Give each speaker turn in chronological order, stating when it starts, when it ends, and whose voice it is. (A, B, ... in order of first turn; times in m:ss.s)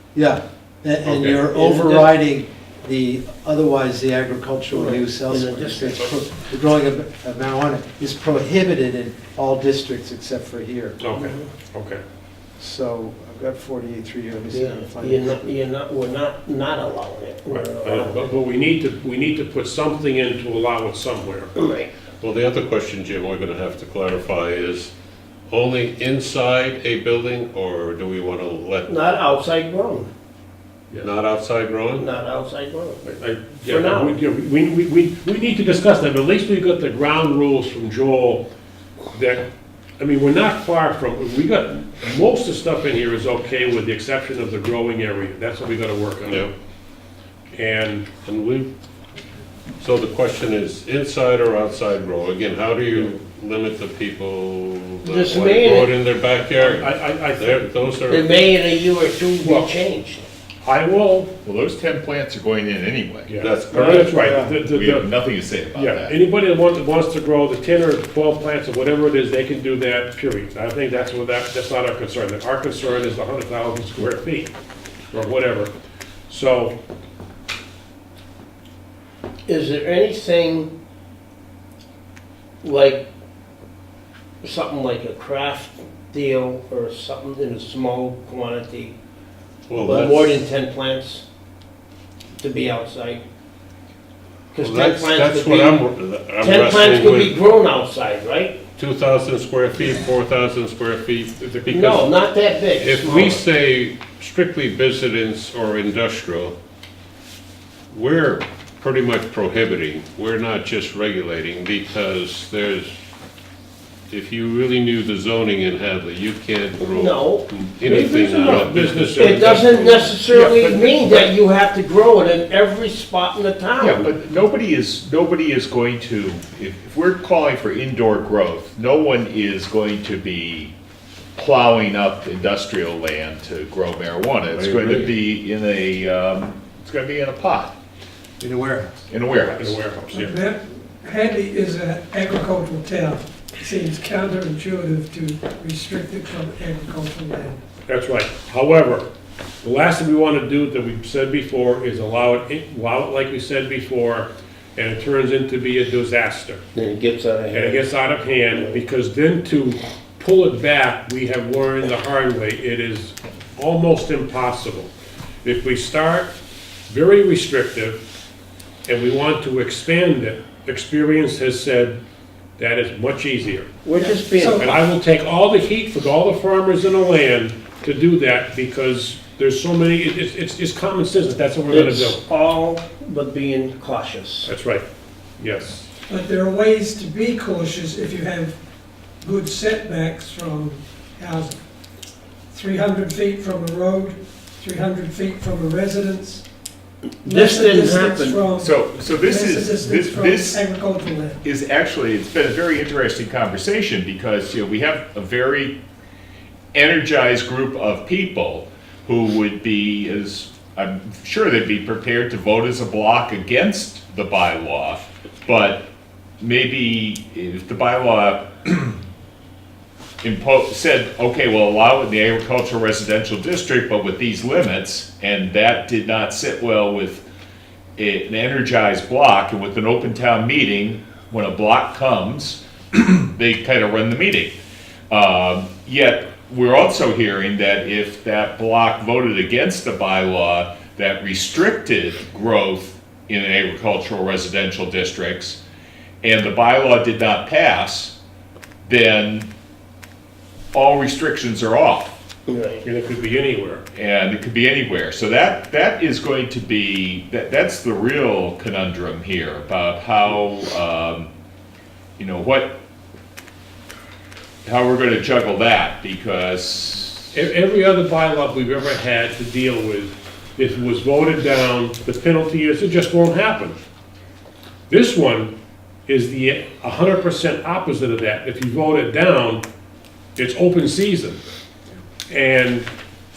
0:00.1-0:11.0 A
0:01.0-0:02.1 B
0:04.7-0:06.2 C
0:11.0-0:12.0 B
0:11.1-0:11.5 C
0:12.6-0:15.5 A
0:14.5-0:18.3 C
0:17.5-0:21.5 B
0:21.5-0:21.9 C
0:22.2-0:24.9 D
0:25.5-0:28.9 D
0:28.8-0:30.1 C
0:31.0-0:32.1 D
0:31.9-0:33.0 C
0:33.0-0:38.4 B
0:33.6-0:34.2 C
0:39.1-0:39.4 B
0:40.0-0:46.5 B
0:46.2-0:46.5 D
0:47.5-0:48.1 B
0:48.2-0:48.7 D
0:49.8-0:58.3 D
0:55.0-0:55.9 C
0:56.6-0:57.7 B
0:58.1-1:00.2 C
0:59.4-0:59.8 B
1:00.6-1:01.3 B
1:01.4-1:03.3 E
1:03.3-1:05.1 B
1:03.4-1:04.2 D
1:04.2-1:04.6 A
1:04.6-1:06.1 E
1:05.7-1:14.5 B
1:15.1-1:15.7 B
1:16.3-1:16.7 B
1:19.5-1:20.7 C
1:22.6-1:23.0 C
1:24.4-1:29.0 C
1:29.7-1:30.2 D
1:29.8-1:31.2 C
1:32.4-1:33.2 C
1:34.5-1:35.8 C
1:34.6-1:37.4 D
1:36.4-1:38.6 C
1:38.8-1:42.1 D
1:41.6-1:43.4 C
1:42.8-1:46.5 D
1:47.9-1:52.9 D
1:54.1-2:00.1 D
1:56.8-1:57.4 C
1:57.8-2:00.2 B
1:59.2-2:04.1 C
2:00.3-2:01.3 E
2:03.8-2:10.7 E
2:11.4-2:17.7 E
2:14.5-2:15.1 D
2:18.4-2:19.0 A
2:19.1-2:19.8 E
2:19.5-2:20.4 B
2:20.1-2:27.6 F
2:27.9-2:29.0 B
2:29.6-2:36.6 B
2:36.7-2:37.8 C
2:37.5-2:44.9 B
2:45.4-2:46.3 B
2:46.9-2:48.0 B
2:48.8-2:52.0 B
2:52.6-2:53.7 B
2:53.8-2:54.7 C
2:53.9-2:54.8 F
2:54.6-3:02.2 B
3:01.7-3:04.5 C
3:04.5-3:04.8 B
3:05.4-3:05.9 B
3:06.1-3:08.6 F
3:09.2-3:11.6 F
3:12.5-3:16.4 F
3:17.2-3:18.4 C
3:17.2-3:21.4 F
3:18.6-3:20.6 E
3:21.4-3:25.8 E
3:26.7-3:35.8 E
3:36.4-3:39.0 E
3:40.2-3:47.2 E
3:48.0-4:05.6 E
4:06.2-4:08.1 E
4:08.8-4:09.5 E
4:10.7-4:12.2 E
4:12.5-4:12.8 C
4:12.8-4:13.8 B
4:13.9-4:21.3 E
4:22.2-4:22.8 E
4:24.6-4:27.3 E
4:27.3-4:33.8 B
4:34.9-4:35.5 B
4:36.1-4:39.6 B
4:40.4-4:41.4 B
4:42.3-4:42.9 B